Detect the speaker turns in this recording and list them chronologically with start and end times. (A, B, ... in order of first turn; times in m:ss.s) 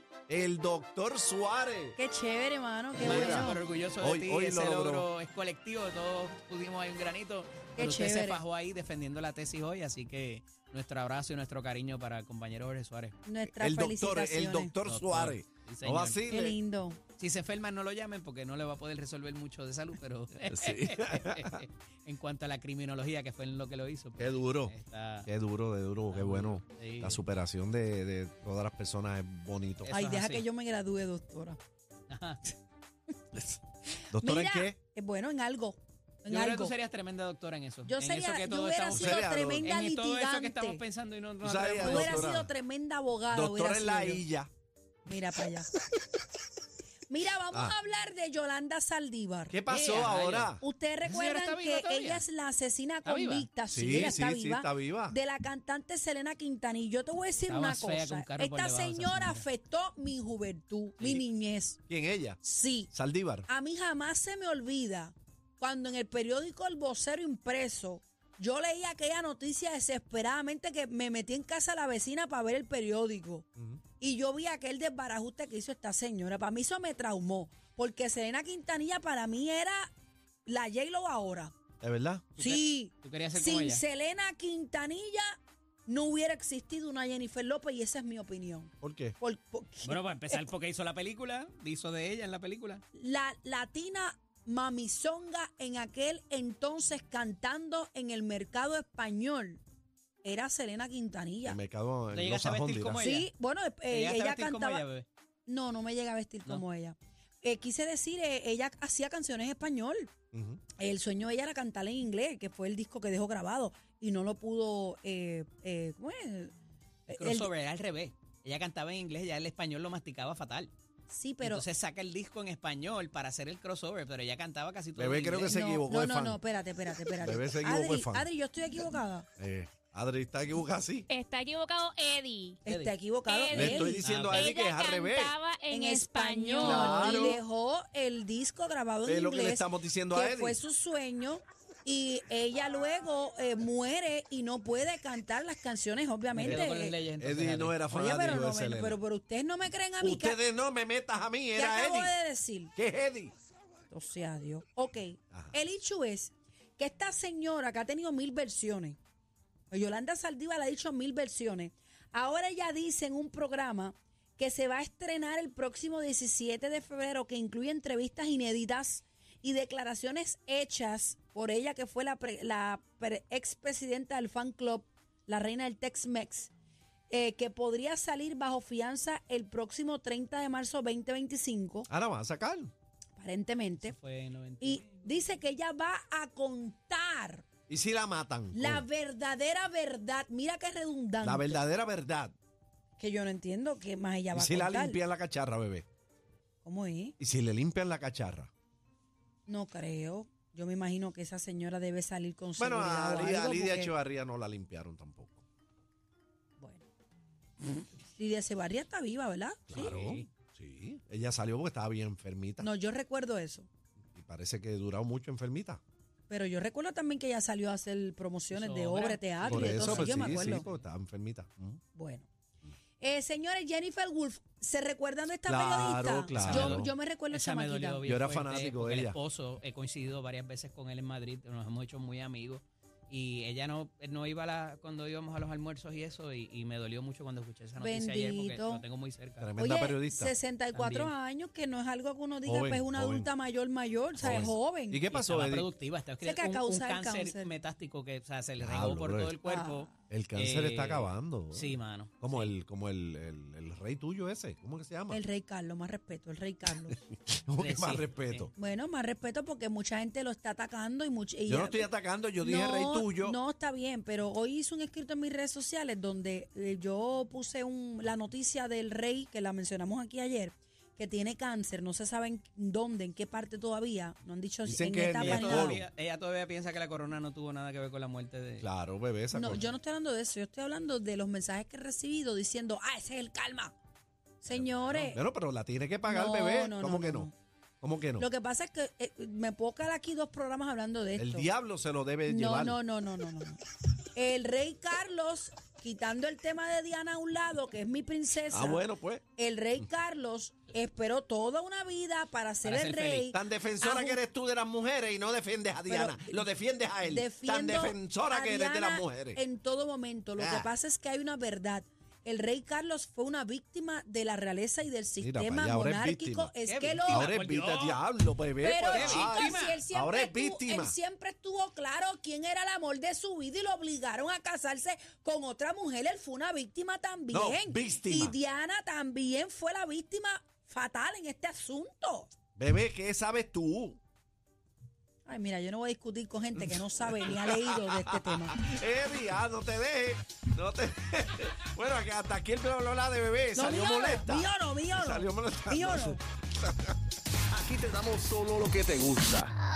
0:00.3-0:02.0 A
0:02.0-0:03.6 B
0:03.0-0:05.1 A
0:03.0-0:13.2 C
0:07.8-0:08.4 B
0:13.2-0:14.7 B
0:13.5-0:16.6 A
0:14.8-0:16.2 C
0:16.3-0:17.0 B
0:17.2-0:25.3 C
0:20.5-0:21.6 A
0:24.2-0:24.7 A
0:25.2-0:29.9 A
0:26.1-0:27.2 C
0:29.8-0:30.4 C
0:29.9-0:31.6 B
0:32.1-0:32.4 C
0:34.1-0:34.8 A
0:34.1-0:36.7 B
0:36.3-0:42.4 C
0:37.8-0:40.8 B
0:38.9-0:39.7 A
0:41.4-0:42.5 A
0:41.8-0:44.2 B
0:43.3-0:44.5 A
0:45.0-0:45.7 B
0:47.1-0:49.6 B
0:49.5-0:50.6 A
0:49.7-0:52.2 C
0:50.6-1:01.8 B
0:53.0-0:53.5 C
0:53.7-0:55.2 A
0:57.5-0:59.4 C
1:01.0-1:01.2 C
1:01.9-1:03.5 A
1:02.4-1:02.9 B
1:03.5-1:13.5 B
1:14.0-1:19.9 B
1:20.4-1:21.5 B
1:21.8-1:22.3 A
1:22.4-1:23.8 C
1:22.4-1:30.0 B
1:28.8-1:29.1 A
1:29.8-1:32.8 C
1:32.9-1:39.6 B
1:40.2-1:41.6 B
1:41.4-1:43.0 A
1:42.1-1:43.3 C
1:43.0-1:44.8 B
1:43.9-1:45.0 C
1:45.5-1:50.1 B
1:50.3-1:50.6 A
1:50.8-1:56.5 B
1:57.1-1:57.5 B
1:57.1-2:00.7 C
2:01.1-2:01.6 B
2:01.4-2:05.6 C
2:05.0-2:06.4 A
2:05.4-2:09.2 B
2:07.2-2:08.3 A
2:09.4-2:11.1 A
2:11.1-2:12.6 D
2:12.6-2:14.0 B
2:12.7-2:12.9 C
2:13.2-2:17.2 D
2:13.5-2:15.4 A
2:13.6-2:14.5 C
2:15.7-2:27.0 B
2:16.6-2:17.4 A
2:19.0-2:20.6 A
2:26.3-2:27.8 C
2:26.4-2:29.0 A
2:27.9-2:30.4 B
2:30.0-2:32.1 A
2:31.5-2:32.7 B
2:32.8-2:33.3 A
2:33.9-2:39.0 B
2:39.7-2:56.5 B
2:57.1-3:01.9 B
3:01.9-3:02.7 A
3:03.2-3:03.9 B
3:03.8-3:05.3 C
3:04.6-3:07.4 B
3:07.7-3:08.8 A
3:08.5-3:11.6 B
3:11.2-3:12.3 A
3:13.0-3:15.0 B
3:14.3-3:15.8 A
3:16.6-3:17.1 B
3:17.2-3:18.5 A
3:19.5-3:23.9 B
3:22.6-3:25.4 A
3:26.6-3:26.8 B
3:28.1-3:30.0 B
3:29.7-3:32.7 A
3:29.7-3:30.3 C
3:32.6-3:33.7 B
3:34.1-3:35.8 A
3:36.3-3:40.6 B
3:38.5-3:40.8 C
3:39.4-3:41.8 A
3:41.9-3:42.3 B
3:43.0-3:48.0 B
3:45.4-3:46.9 A
3:46.3-3:59.5 C
3:48.0-3:49.2 A
3:57.8-3:58.8 B
3:59.4-4:00.3 A
3:59.6-4:05.0 B
4:00.7-4:01.1 C
4:02.4-4:03.3 A
4:04.2-4:05.7 A
4:04.2-4:04.5 C
4:05.1-4:12.5 C
4:06.2-4:07.5 B
4:08.6-4:09.4 A
4:09.4-4:09.9 B
4:10.1-4:15.2 A
4:15.1-4:17.0 B
4:17.3-4:18.5 A
4:17.6-4:18.5 C
4:18.5-4:35.8 B
4:21.5-4:23.4 A
4:34.6-4:35.8 A
4:35.2-4:38.7 C
4:38.6-4:39.7 A
4:39.3-4:43.7 B
4:44.4-4:45.2 B
4:44.5-4:47.3 A
4:46.0-4:47.3 B
4:47.8-4:48.3 A
4:48.2-4:51.5 B
4:51.2-4:52.8 A
4:52.2-4:53.6 B
4:54.1-5:04.2 B
4:58.5-4:59.2 A
5:02.6-5:03.3 C
5:03.3-5:09.4 A
5:05.9-5:06.4 B
5:07.0-5:17.3 B
5:10.4-5:10.7 A
5:15.2-5:16.5 A
5:16.6-5:18.0 C
5:17.0-5:21.0 A
5:18.6-5:32.3 B
5:18.9-5:19.8 C
5:27.3-5:28.4 A
5:32.6-5:34.0 A
5:35.2-5:38.6 B
5:36.6-5:47.0 A
5:43.5-5:46.2 B
5:47.5-5:49.5 E